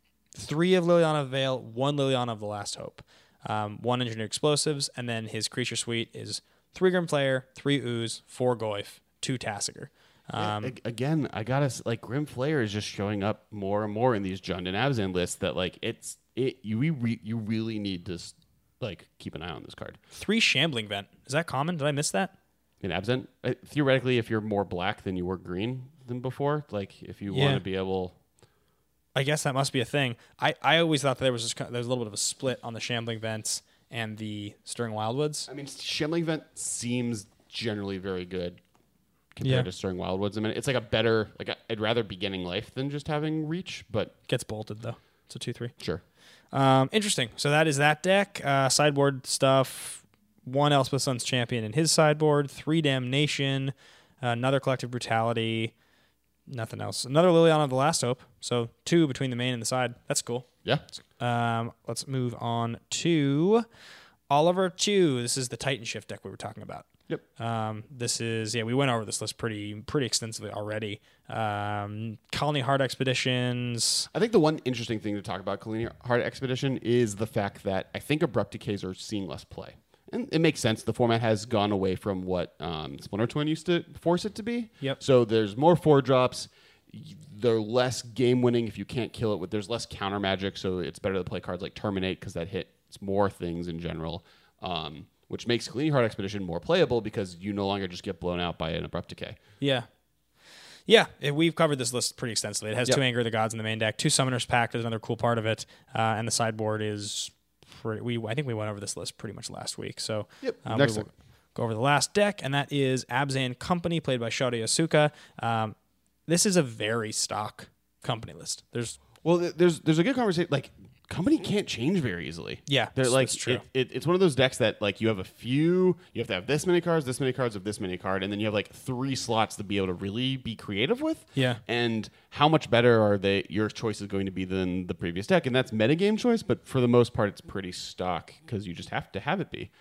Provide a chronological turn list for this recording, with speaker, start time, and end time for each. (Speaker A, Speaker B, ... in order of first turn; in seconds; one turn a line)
Speaker A: 0.3-10.8
Speaker B: 10.4-20.0
Speaker A: 20.1-22.3
Speaker B: 22.8-28.2
Speaker A: 27.3-27.6
Speaker A: 29.1-35.5
Speaker B: 35.5-38.6
Speaker B: 39.3-44.1
Speaker A: 44.3-45.7
Speaker A: 46.5-55.7
Speaker A: 56.5-60.5
Speaker A: 61.2-63.6
Speaker A: 64.3-74.1
Speaker B: 74.1-99.4
Speaker A: 99.6-99.9
Speaker A: 100.9-115.8
Speaker B: 110.4-111.1
Speaker A: 116.3-119.0
Speaker B: 119.2-139.7
Speaker A: 122.7-123.6